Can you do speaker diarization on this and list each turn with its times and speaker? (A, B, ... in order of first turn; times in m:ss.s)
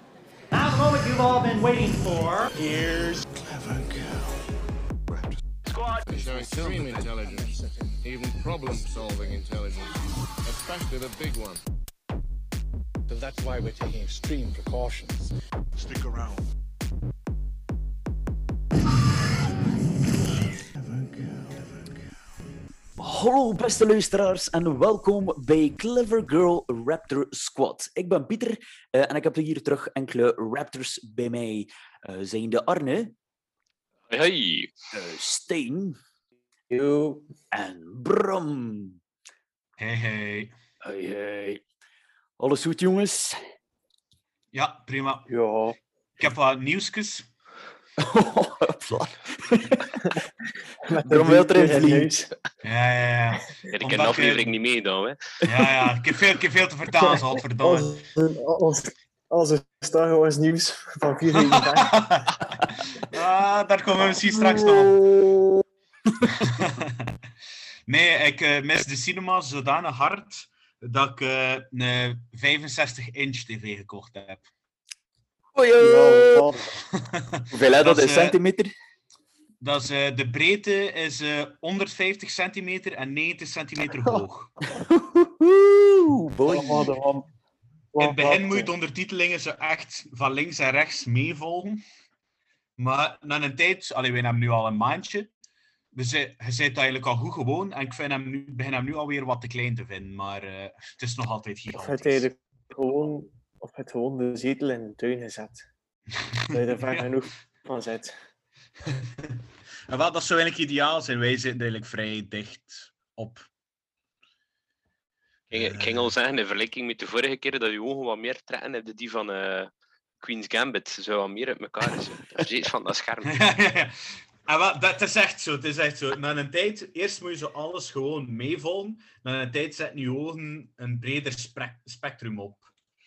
0:00.5-0:02.5 A
0:02.6-0:04.4 B
0:06.0-0:11.6 C
0:06.3-0:06.8 B
0:13.1-0:15.3 D
0:23.0-0:33.1 E
0:34.1-0:34.7 F
0:34.9-0:36.0 E
0:36.7-0:37.3 G
0:37.5-0:39.0 E
0:39.8-0:40.5 H
0:40.8-0:41.6 E
0:42.4-0:43.4 E
0:44.5-0:45.3 H
0:45.3-0:45.8 G
0:46.2-0:47.3 H
0:48.0-0:50.0 E
0:50.8-0:52.3 G
0:51.0-0:52.1 E
0:52.6-0:54.6 H
0:53.7-0:55.2 F
0:55.4-0:58.0 H
0:57.0-1:02.0 G
1:01.3-1:02.4 H
1:03.1-1:05.0 H
1:04.3-1:05.6 E
1:06.2-1:06.6 E
1:06.4-1:07.1 H
1:07.9-1:14.4 H
1:15.6-1:16.5 E
1:15.8-1:16.7 G
1:16.9-1:18.4 H
1:17.5-1:18.7 E
1:19.6-1:24.6 H
1:24.7-1:27.0 E
1:26.5-1:27.3 G
1:27.9-1:28.7 G
1:28.0-1:31.8 H
1:32.8-1:35.3 H
1:35.9-1:42.3 H
1:41.7-1:45.7 G
1:46.5-1:48.2 G
1:46.7-1:47.1 H
1:48.9-1:53.5 H
1:55.5-1:56.1 H
1:55.5-1:59.7 F
2:00.2-2:03.4 F
2:03.3-2:12.6 H